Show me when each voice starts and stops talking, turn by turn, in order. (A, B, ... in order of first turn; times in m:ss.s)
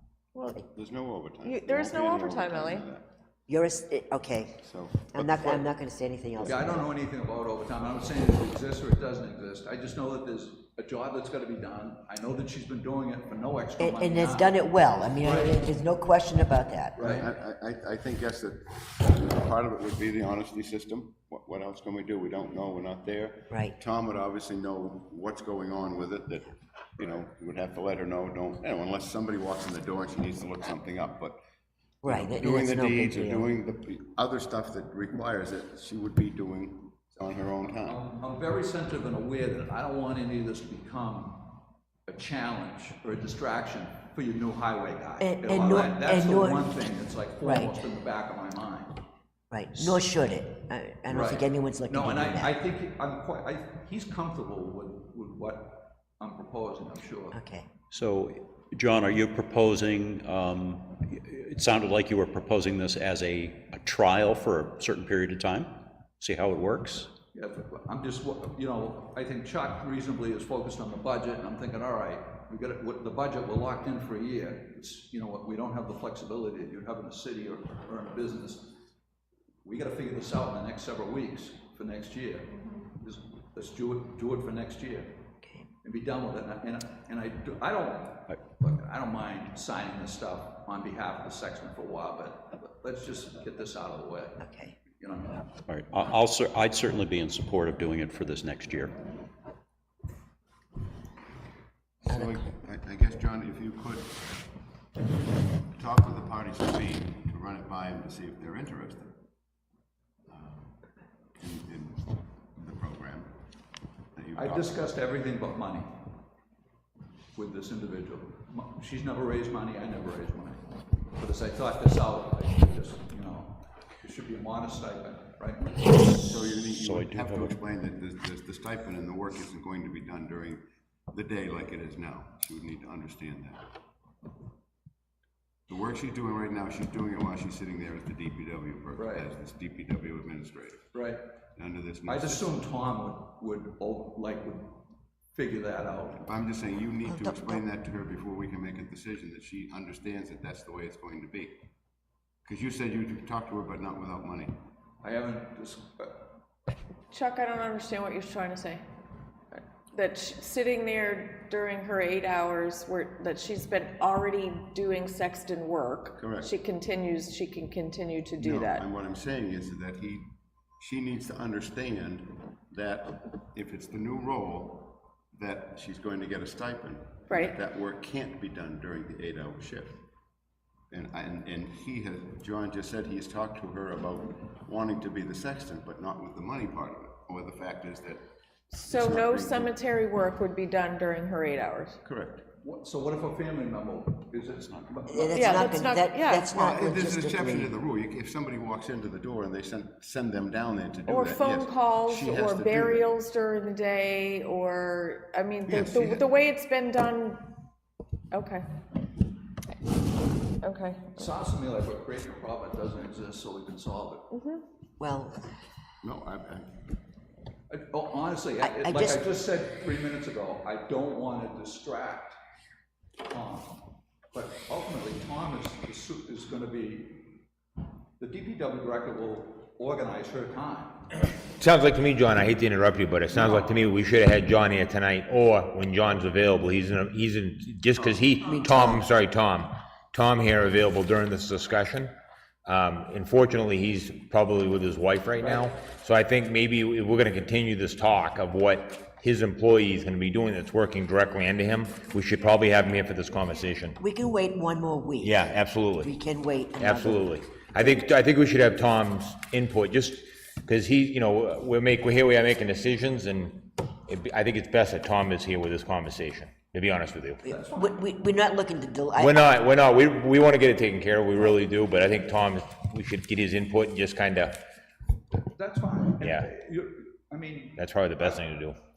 0:00.3-0:00.6 A
0:00.7-0:03.0 B
0:01.4-0:02.8 A
0:03.5-0:04.6 C
0:04.6-0:05.6 B
0:05.1-0:06.8 C
0:06.4-0:06.7 B
0:06.4-0:14.6 D
0:13.8-0:17.2 C
0:15.2-0:15.6 D
0:17.0-0:17.3 D
0:17.0-0:31.4 B
0:32.0-0:33.5 C
0:32.0-0:38.0 B
0:37.8-0:41.4 D
0:42.1-0:49.0 D
0:45.2-0:46.8 C
0:47.4-0:47.7 C
0:49.5-0:52.5 C
0:51.1-0:57.4 D
0:57.3-0:57.6 C
0:57.9-1:07.1 E
1:07.3-1:18.8 D
1:19.6-1:25.2 D
1:25.8-1:34.4 D
1:34.4-1:34.7 C
1:35.0-1:35.5 D
1:35.7-1:39.0 E
1:42.0-1:44.4 B
1:42.1-1:42.5 C
1:45.7-1:49.1 B
1:50.3-1:50.8 B
1:51.4-1:53.3 B
1:54.2-1:54.8 B
1:54.3-1:56.1 D
1:57.3-2:00.6 D
2:01.1-2:06.0 D
2:06.2-2:13.7 B
2:06.8-2:07.5 E
2:15.7-2:20.9 B
2:19.0-2:19.3 D
2:20.9-2:21.2 D
2:21.5-2:22.6 B
2:22.0-2:24.8 D
2:25.3-2:26.2 D
2:26.2-2:31.5 B
2:27.1-2:27.6 C
2:32.4-2:34.6 B
2:35.0-2:36.2 D
2:37.1-2:38.8 A
2:39.6-2:48.8 A
2:46.2-2:46.5 B
2:48.4-3:00.0 B
2:57.3-2:57.6 A
3:00.9-3:08.2 B
3:08.7-3:12.0 A
3:08.9-3:09.7 B
3:12.0-3:12.4 B
3:12.6-3:15.6 D
3:15.1-3:17.7 C
3:15.3-3:16.5 A
3:16.5-3:23.2 B
3:21.1-3:27.4 A
3:25.6-3:26.3 B
3:28.3-3:28.6 A
3:30.6-3:31.3 A
3:31.2-3:34.2 D
3:34.3-3:34.6 A
3:35.0-3:35.4 C
3:36.0-3:36.8 B
3:37.7-3:42.4 D
3:38.6-3:39.2 C
3:43.3-3:47.4 D
3:48.2-3:51.1 D
3:51.6-4:02.1 F
3:53.3-3:53.7 D
3:58.4-3:59.0 C
4:02.6-4:14.0 F
4:14.0-4:15.4 C
4:15.2-4:16.1 F
4:16.0-4:17.3 C
4:16.8-4:27.4 F
4:27.4-4:29.6 C
4:27.4-4:28.0 D
4:29.2-4:34.5 F
4:35.4-4:38.4 D
4:36.2-4:36.4 F
4:37.8-4:38.8 F